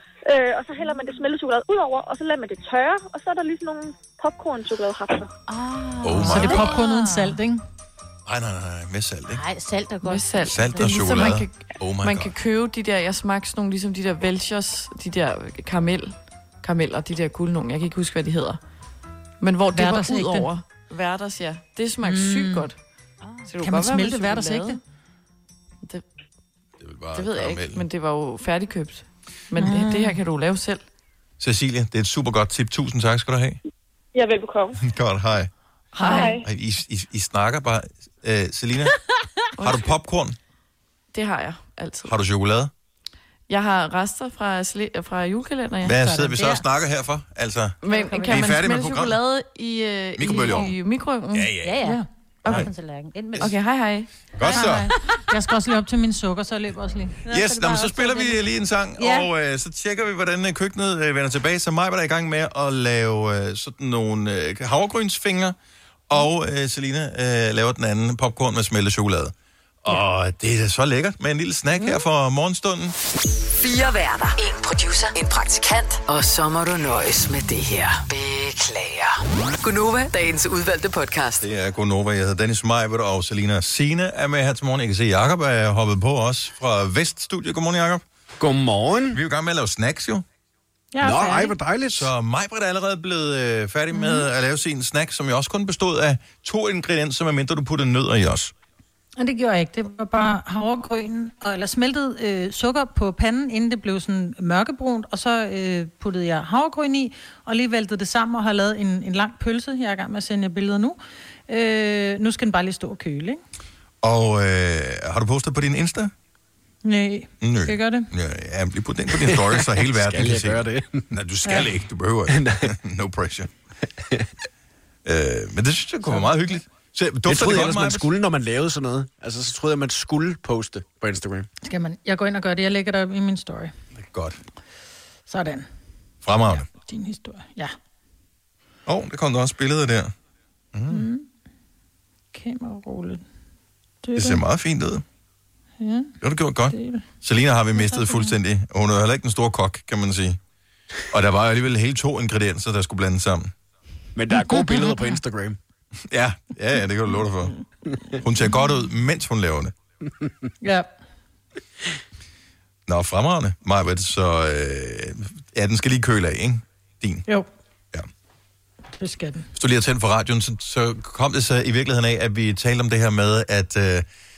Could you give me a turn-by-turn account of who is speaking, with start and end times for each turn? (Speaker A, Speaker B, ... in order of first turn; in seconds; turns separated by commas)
Speaker A: 0.3-5.3, Speaker B: 5.5-7.4, Speaker C: 6.0-6.7, Speaker D: 6.2-7.6, Speaker C: 8.2-9.4, Speaker B: 9.3-10.8, Speaker E: 10.0-18.6, Speaker C: 10.4-12.3, Speaker E: 19.4-22.8, Speaker D: 19.7-20.5, Speaker D: 22.0-22.6, Speaker E: 23.4-24.8, Speaker D: 23.6-24.8, Speaker C: 26.8-27.8, Speaker E: 27.1-30.8, Speaker D: 29.6-30.2, Speaker C: 31.4-33.6, Speaker A: 34.2-34.7, Speaker C: 34.8-35.5, Speaker E: 35.9-36.4, Speaker A: 36.0-36.4, Speaker C: 36.2-38.9, Speaker E: 39.6-39.9, Speaker C: 39.6-40.4, Speaker E: 41.1-42.1, Speaker C: 42.0-42.7, Speaker E: 43.5-46.0, Speaker C: 45.8-49.2, Speaker B: 45.9-46.6, Speaker E: 47.8-51.5, Speaker B: 47.8-48.5, Speaker C: 50.2-50.7, Speaker C: 51.3-51.8, Speaker B: 51.6-53.5, Speaker C: 52.4-52.7, Speaker E: 53.4-54.2, Speaker C: 54.3-54.9, Speaker D: 54.4-57.2, Speaker B: 57.2-58.4, Speaker C: 57.3-65.5, Speaker B: 59.0-59.3, Speaker C: 66.1-72.9, Speaker F: 73.6-81.4, Speaker C: 81.4-88.0, Speaker G: 88.4-89.2, Speaker C: 89.1-90.2, Speaker D: 90.9-91.5, Speaker G: 91.0-92.1, Speaker C: 91.9-98.5, Speaker D: 93.9-94.2, Speaker D: 99.2-113.4, Speaker C: 114.0-116.1, Speaker D: 116.8-118.1, Speaker C: 117.4-120.6, Speaker G: 119.1-121.1, Speaker C: 121.2-123.5, Speaker G: 122.3-122.7, Speaker C: 125.0-128.1, Speaker G: 127.2-131.5, Speaker D: 131.6-133.7, Speaker C: 133.9-134.4, Speaker D: 135.3-135.7, Speaker C: 136.2-136.7, Speaker D: 136.7-137.7, Speaker C: 138.8-140.1, Speaker C: 140.7-141.0, Speaker D: 140.9-141.2, Speaker D: 142.3-143.2, Speaker D: 144.0-144.4, Speaker C: 144.1-145.0, Speaker D: 145.8-146.1, Speaker C: 146.2-150.4, Speaker D: 146.7-147.0, Speaker D: 147.8-148.3, Speaker C: 151.1-153.5, Speaker G: 154.2-155.6, Speaker D: 154.4-155.0, Speaker C: 156.1-157.5, Speaker C: 158.1-159.7, Speaker D: 160.6-160.9, Speaker C: 162.9-167.2, Speaker D: 169.0-169.5, Speaker C: 169.5-174.1